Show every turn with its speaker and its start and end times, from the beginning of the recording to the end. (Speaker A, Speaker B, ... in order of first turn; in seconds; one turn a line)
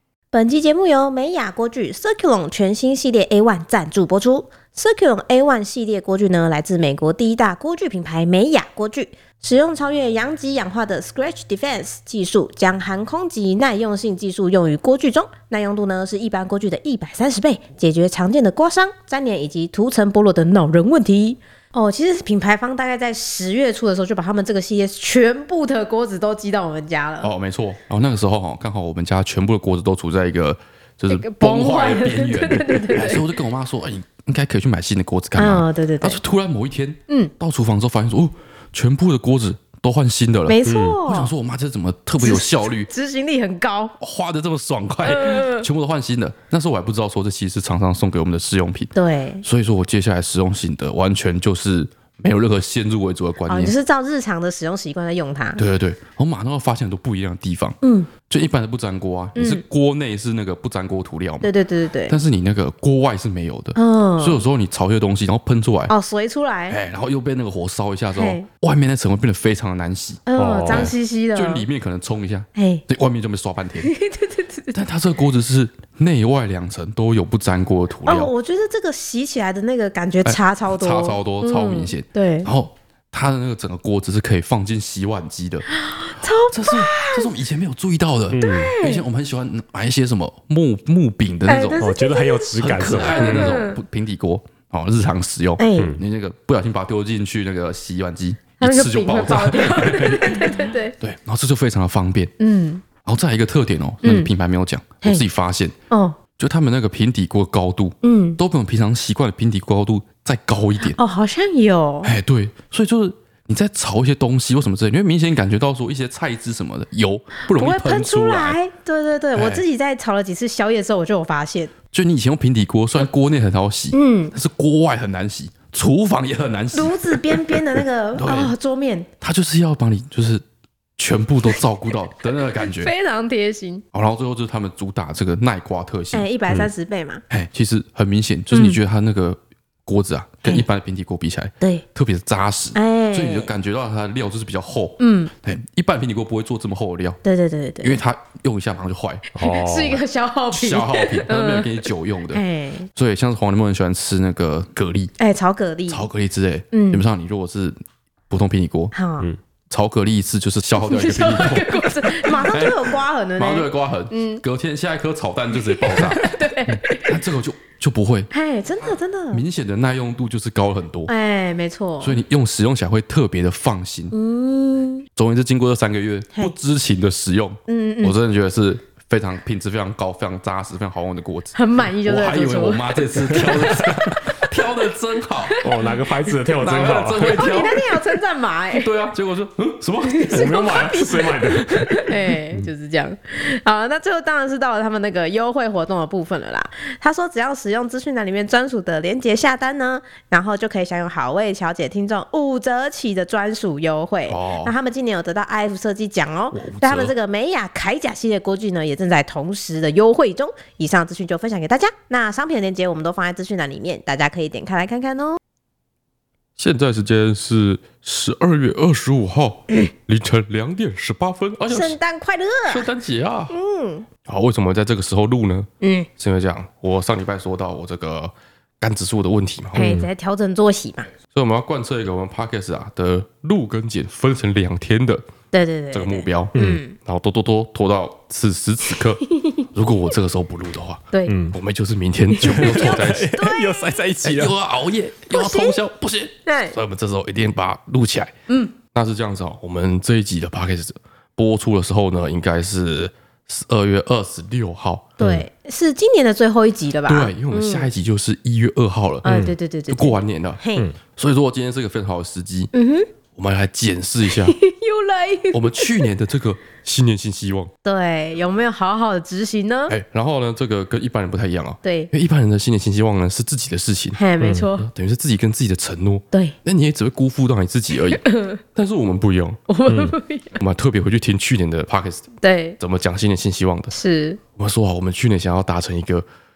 Speaker A: 0.3-27.3
Speaker B: 27.2-42.9
Speaker A: 31.1-33.3
Speaker A: 35.3-36.2
Speaker A: 40.5-41.3
Speaker C: 40.6-41.0
Speaker A: 42.2-43.9
Speaker B: 44.0-48.9
Speaker A: 45.0-45.6
Speaker A: 48.9-49.4
Speaker B: 49.4-53.7
Speaker A: 53.5-55.6
Speaker B: 55.6-61.5
Speaker A: 57.8-58.1
Speaker A: 59.3-59.6
Speaker A: 61.4-62.2
Speaker B: 62.1-65.9
Speaker A: 63.7-64.5
Speaker A: 65.9-66.8
Speaker B: 66.7-73.9
Speaker A: 68.1-68.5
Speaker A: 70.3-71.7
Speaker C: 70.4-70.9
Speaker A: 72.5-72.8
Speaker A: 73.8-74.7
Speaker B: 74.7-78.3
Speaker A: 78.0-82.5
Speaker B: 80.2-85.6
Speaker A: 85.7-87.3
Speaker B: 86.2-91.9
Speaker C: 88.3-88.7
Speaker A: 88.3-89.0
Speaker A: 91.5-93.8
Speaker C: 91.8-93.5
Speaker B: 92.6-102.3
Speaker A: 95.6-96.0
Speaker A: 98.6-100.9
Speaker A: 102.4-102.8
Speaker B: 103.0-105.7
Speaker A: 104.0-104.3
Speaker A: 105.9-106.2
Speaker B: 106.4-111.0
Speaker A: 108.0-108.4
Speaker A: 110.9-112.1
Speaker B: 112.0-118.6
Speaker A: 117.4-121.7
Speaker B: 119.3-119.6
Speaker B: 121.9-128.5
Speaker A: 123.9-124.3
Speaker A: 126.7-129.1
Speaker B: 129.2-130.4
Speaker B: 131.0-132.9
Speaker A: 132.6-133.8
Speaker B: 133.9-136.7
Speaker A: 136.1-137.2
Speaker B: 137.3-147.2
Speaker A: 138.5-138.8
Speaker A: 142.7-143.5
Speaker A: 145.0-145.3
Speaker A: 147.2-148.0
Speaker B: 147.8-149.3
Speaker C: 149.3-150.0
Speaker A: 149.4-152.9
Speaker B: 149.9-152.4
Speaker B: 152.9-155.1
Speaker A: 155.2-156.1
Speaker B: 155.9-157.8
Speaker A: 156.7-157.0
Speaker B: 158.3-158.9
Speaker A: 158.9-159.3
Speaker B: 159.7-168.3
Speaker A: 160.8-164.4
Speaker A: 165.5-167.2
Speaker A: 168.3-169.4
Speaker B: 169.3-171.1
Speaker A: 171.1-172.2
Speaker B: 172.0-174.1
Speaker A: 174.1-175.1
Speaker B: 175.1-185.6
Speaker A: 177.7-178.2
Speaker A: 181.5-183.5
Speaker A: 185.5-185.9
Speaker C: 185.6-187.5
Speaker B: 186.6-187.9
Speaker A: 187.3-188.9
Speaker B: 188.7-190.8
Speaker A: 190.0-215.4
Speaker C: 190.3-192.1
Speaker B: 204.3-204.7
Speaker B: 206.5-207.1
Speaker B: 216.6-222.0
Speaker A: 221.7-222.9
Speaker B: 222.7-223.5
Speaker A: 223.5-224.1
Speaker B: 224.2-229.9
Speaker A: 225.8-226.1
Speaker A: 229.7-231.1
Speaker C: 229.8-230.1
Speaker B: 231.3-235.2
Speaker A: 235.5-236.9
Speaker B: 235.9-243.4
Speaker C: 236.5-236.8
Speaker A: 239.3-239.7
Speaker A: 241.1-241.4
Speaker C: 241.3-241.5
Speaker A: 242.4-244.0
Speaker C: 242.4-244.5
Speaker B: 244.2-248.3
Speaker A: 245.3-245.8
Speaker A: 246.4-246.8
Speaker A: 248.5-248.7
Speaker B: 248.9-255.2
Speaker A: 255.2-257.9
Speaker C: 255.2-255.4
Speaker B: 257.1-259.2
Speaker C: 259.2-259.6
Speaker A: 259.2-260.9
Speaker B: 259.9-262.7
Speaker A: 262.7-263.1
Speaker B: 263.4-264.6
Speaker A: 264.3-266.1
Speaker B: 265.5-267.7
Speaker A: 267.8-270.0
Speaker B: 269.9-274.2
Speaker A: 271.8-272.1
Speaker A: 274.1-274.9
Speaker C: 274.4-274.7
Speaker B: 274.8-279.6
Speaker A: 278.2-278.6
Speaker A: 279.7-280.6
Speaker C: 279.9-280.1
Speaker B: 280.6-283.9
Speaker A: 282.4-282.8
Speaker A: 283.9-284.4
Speaker B: 284.6-286.3